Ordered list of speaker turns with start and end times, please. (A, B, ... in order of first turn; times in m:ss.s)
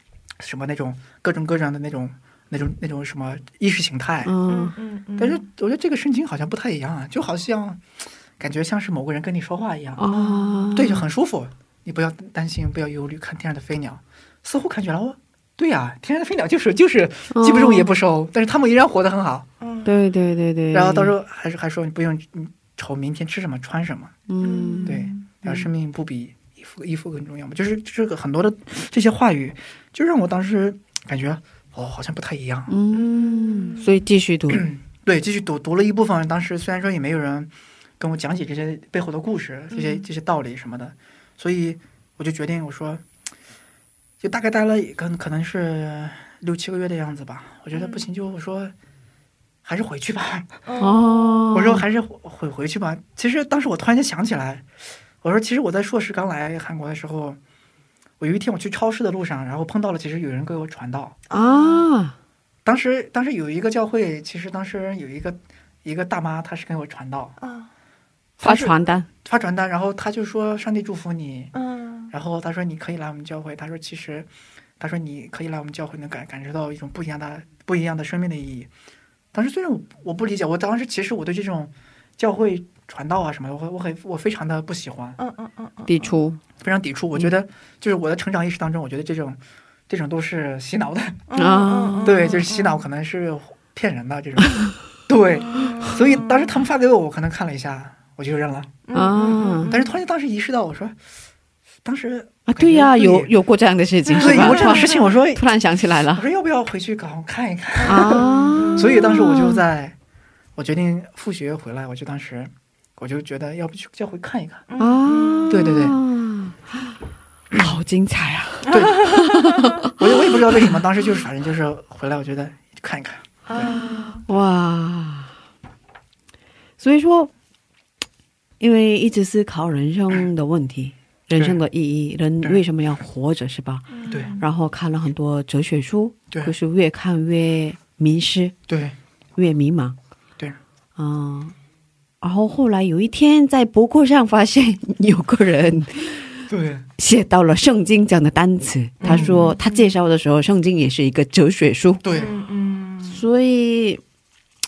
0:00.4-0:04.3 A
0:04.2-0:04.8 B
0:04.5-0:05.4 C
0:05.2-0:10.0 A
0:10.0-0:11.0 B
0:10.1-0:10.9 C
0:10.7-0:19.5 A
0:17.3-0:17.9 B
0:19.6-0:20.0 C
0:19.8-0:21.1 B
0:20.7-0:24.2 A
0:24.3-0:25.7 B
0:24.4-0:25.4 C
0:24.8-0:32.7 A
0:32.7-0:34.7 B
0:32.9-0:34.0 C
0:34.5-0:43.0 A
0:39.7-0:40.0 C
0:44.2-0:48.7 A
0:47.7-0:48.1 C
0:49.6-0:50.6 A
0:50.6-0:51.4 C
0:50.8-0:51.8 B
0:51.5-0:54.7 A
0:55.2-0:57.4 A
0:58.2-1:01.2 A
1:01.3-1:01.8 C
1:01.3-1:02.1 B
1:02.6-1:07.3 A
1:07.4-1:07.7 C
1:08.4-1:11.5 A
1:08.4-1:09.1 B
1:11.5-1:12.1 C
1:12.1-1:14.3 A
1:14.8-1:18.7 A
1:19.3-1:25.2 A
1:25.2-1:26.1 C
1:25.9-1:26.4 B
1:26.6-1:31.2 A
1:31.3-1:32.8 C
1:31.3-1:32.3 B
1:32.0-1:38.8 A
1:35.4-1:36.5 C
1:38.9-1:39.9 C
1:38.9-1:39.8 B
1:39.7-1:41.0 A
1:41.8-1:43.3 A
1:42.4-1:46.2 B
1:44.0-1:45.1 C
1:44.2-1:45.4 A
1:46.1-1:50.0 A
1:47.8-1:49.3 C
1:47.8-1:49.6 B
1:50.5-1:54.7 A
1:54.7-1:55.6 C
1:54.8-1:56.9 B
1:55.5-1:56.0 A
1:57.5-1:59.8 B
1:58.7-1:59.3 A
1:58.7-1:59.6 C
1:59.8-2:03.7 A
2:03.4-2:04.2 C
2:03.5-2:05.3 B
2:06.8-2:07.3 B
2:08.6-2:18.5 B
2:11.3-2:11.6 A
2:13.9-2:14.5 C
2:14.1-2:14.4 A
2:18.7-2:19.0 A
2:19.4-2:20.0 B
2:21.0-2:21.5 B
2:22.2-2:26.4 B
2:26.5-2:26.9 A
2:27.0-2:32.0 B
2:29.0-2:29.9 C
2:29.0-2:29.5 A
2:32.0-2:32.3 A
2:32.1-2:33.2 C
2:33.1-2:34.0 B